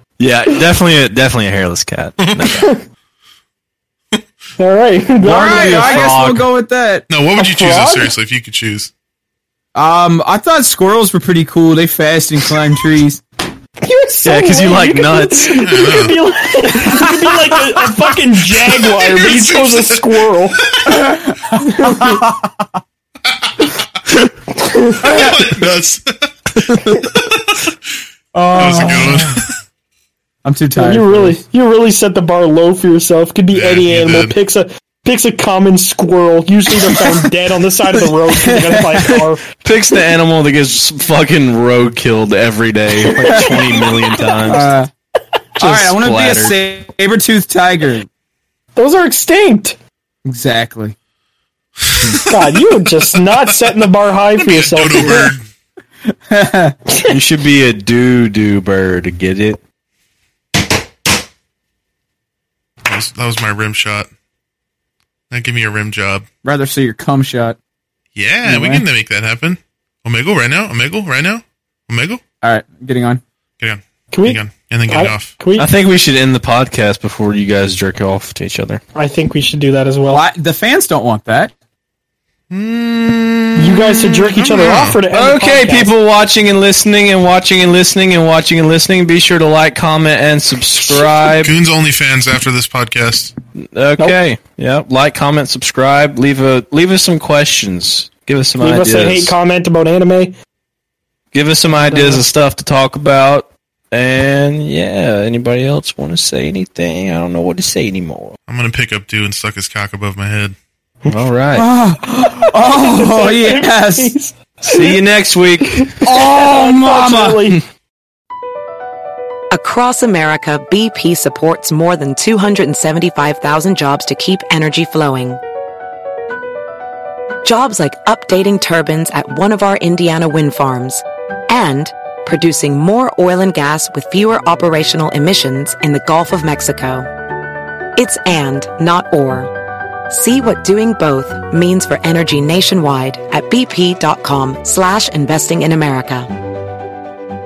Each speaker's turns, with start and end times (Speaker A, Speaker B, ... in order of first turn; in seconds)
Speaker A: 0.2-2.7, 5.2-6.5, 14.2-15.6, 39.6-44.7, 45.6-46.6, 57.1-59.6, 75.6-78.8, 85.1-91.5, 93.5-99.3, 101.3-108.3, 111.1-111.7, 114.6-115.9
Speaker B: 2.2-2.5, 7.1-8.9, 15.6-16.2, 18.6-21.0, 23.3-23.7, 25.0-27.6, 28.5-29.5, 33.5-34.4, 51.8-52.4, 53.2-53.5, 54.4-55.4, 62.8-64.1, 65.3-66.2, 68.2-72.2, 73.6-75.4, 82.5-85.0, 91.3-93.3, 108.5-110.5
Speaker C: 2.5-2.8, 4.6-6.2, 7.3-8.2, 13.8-20.6, 21.6-22.2, 24.6-25.1, 30.8-39.4, 43.2-44.4, 48.8-49.8, 52.2-55.3, 74.1-75.7, 78.9-80.2, 83.5-85.9, 98.6-100.3, 101.8-102.2, 112.1-115.0, 116.0-117.6
Speaker D: 5.3-7.1, 9.7-13.2, 21.0-22.4, 25.0-25.4, 28.3-29.4, 30.4-31.4, 38.1-39.2, 44.5-44.9, 45.6-48.1, 50.2-50.9, 56.1-56.8, 66.4-67.6, 68.4-68.8, 72.4-73.2, 80.1-81.5, 111.5-114.1, 116.0-117.5
Speaker E: 119.5-125.4, 127.4-137.1, 137.9-139.5, 140.1-146.3